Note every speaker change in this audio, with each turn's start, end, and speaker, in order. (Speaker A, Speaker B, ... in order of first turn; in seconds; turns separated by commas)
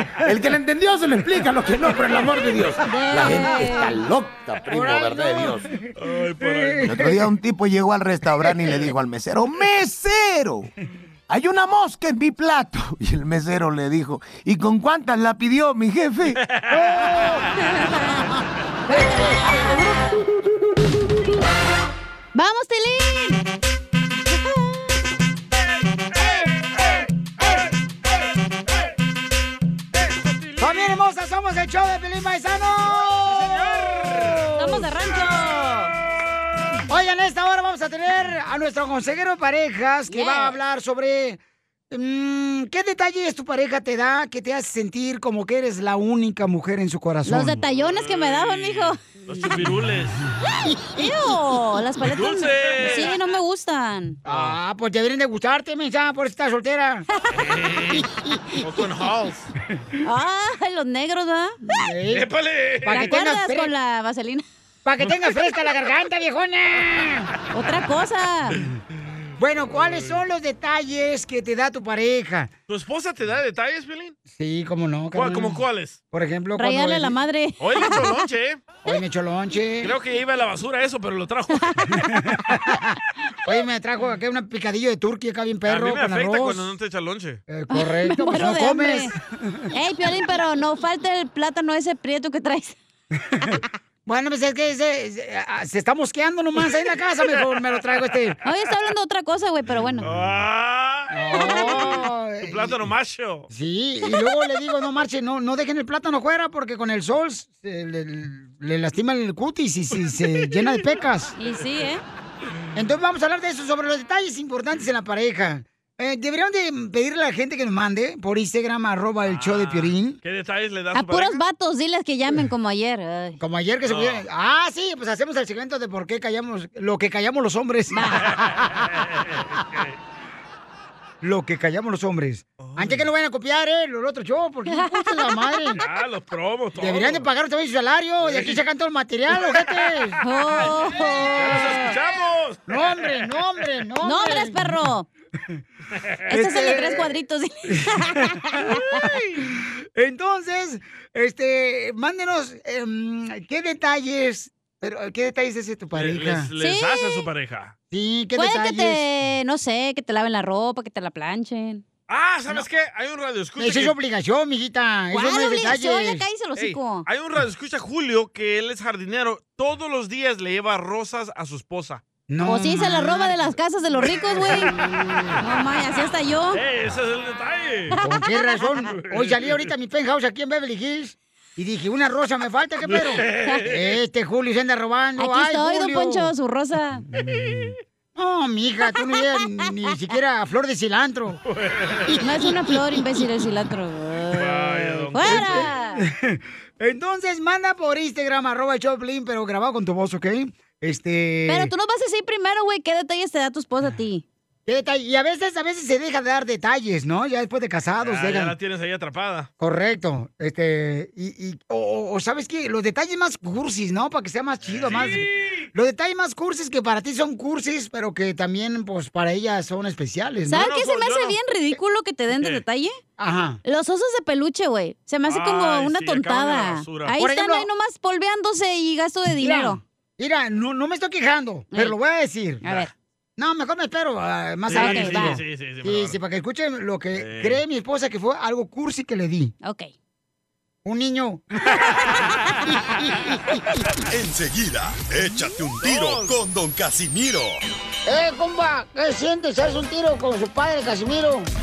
Speaker A: 0.2-5.7, Speaker B: 2.9-4.0, Speaker C: 4.7-5.9, Speaker D: 6.0-7.1, Speaker C: 6.4-7.1, Speaker A: 6.8-10.7, Speaker A: 11.3-16.4, Speaker D: 16.4-17.4, Speaker C: 17.0-17.4, Speaker B: 18.9-20.1, Speaker B: 22.3-23.4, Speaker B: 24.2-24.9, Speaker D: 30.1-30.9, Speaker C: 30.6-34.5, Speaker D: 33.3-34.6, Speaker B: 34.5-35.9, Speaker C: 36.9-47.6, Speaker B: 40.1-40.6, Speaker B: 47.2-49.1, Speaker D: 47.7-50.2, Speaker B: 50.9-54.2, Speaker D: 52.0-53.2, Speaker C: 54.2-57.0, Speaker D: 54.3-54.6, Speaker D: 57.3-58.1, Speaker D: 58.6-59.5, Speaker B: 60.0-61.8, Speaker C: 61.8-62.3, Speaker D: 62.1-63.1, Speaker C: 62.8-63.7, Speaker B: 62.9-64.4, Speaker C: 64.8-67.3, Speaker B: 67.5-68.6, Speaker C: 69.4-72.5, Speaker D: 69.9-70.1, Speaker D: 72.7-74.2, Speaker C: 74.3-75.6, Speaker D: 75.1-76.0, Speaker C: 76.1-77.2, Speaker B: 76.6-78.2, Speaker D: 77.6-78.6, Speaker C: 78.8-79.9, Speaker D: 79.8-82.0, Speaker B: 81.6-82.1, Speaker C: 82.1-86.7, Speaker D: 85.7-87.4, Speaker C: 87.5-89.7, Speaker B: 87.7-89.1, Speaker B: 89.7-92.8, Speaker C: 93.3-98.4, Speaker B: 98.4-100.1, Speaker D: 100.0-103.5, Speaker C: 101.1-102.8, Speaker B: 101.3-102.0, Speaker C: 103.5-111.3, Speaker B: 111.4-112.0, Speaker C: 112.7-120.2, Speaker D: 119.3-121.4, Speaker B: 120.9-123.4, Speaker C: 123.4-128.7, Speaker D: 123.8-124.2, Speaker B: 127.9-128.3, Speaker D: 128.8-129.9, Speaker C: 131.2-135.8, Speaker D: 132.6-133.1, Speaker B: 134.7-135.8, Speaker D: 135.8-137.3, Speaker C: 136.8-140.2, Speaker D: 138.2-138.6, Speaker D: 139.3-143.3, Speaker B: 140.2-141.9, Speaker C: 142.7-144.8, Speaker B: 144.0-145.1, Speaker B: 146.3-149.0, Speaker C: 146.3-147.1, Speaker C: 147.7-148.3, Speaker C: 149.0-156.5, Speaker D: 155.9-157.7, Speaker B: 156.6-157.2, Speaker C: 157.9-159.0, Speaker B: 158.3-161.8, Speaker D: 162.1-163.9, Speaker C: 163.6-166.2, Speaker B: 165.1-167.1, Speaker D: 166.6-172.0, Speaker C: 172.3-173.5, Speaker B: 172.4-174.7, Speaker B: 175.4-176.6, Speaker D: 176.5-178.0, Speaker B: 177.9-178.6, Speaker C: 178.0-186.3, Speaker D: 178.9-179.7, Speaker D: 182.9-183.9, Speaker B: 185.2-187.0, Speaker C: 187.2-191.4, Speaker D: 187.2-187.7, Speaker D: 191.5-192.2, Speaker B: 192.2-196.0, Speaker D: 194.3-195.7, Speaker C: 195.2-201.7, Speaker B: 201.5-204.2, Speaker C: 204.7-208.5, Speaker D: 208.0-209.5, Speaker C: 209.6-220.6, Speaker D: 214.7-215.7, Speaker B: 220.5-223.0, Speaker D: 220.5-221.3, Speaker D: 222.4-222.6, Speaker C: 223.2-223.6, Speaker B: 223.6-229.8, Speaker D: 225.2-227.2, Speaker C: 227.2-227.7, Speaker C: 229.4-232.6, Speaker B: 232.6-232.9, Speaker C: 233.4-239.5, Speaker D: 234.7-236.2, Speaker B: 234.7-235.4, Speaker D: 237.1-237.6, Speaker B: 239.6-239.9, Speaker C: 240.8-241.8, Speaker E: 244.1-247.6, Speaker D: 245.8-246.3, Speaker C: 248.1-251.5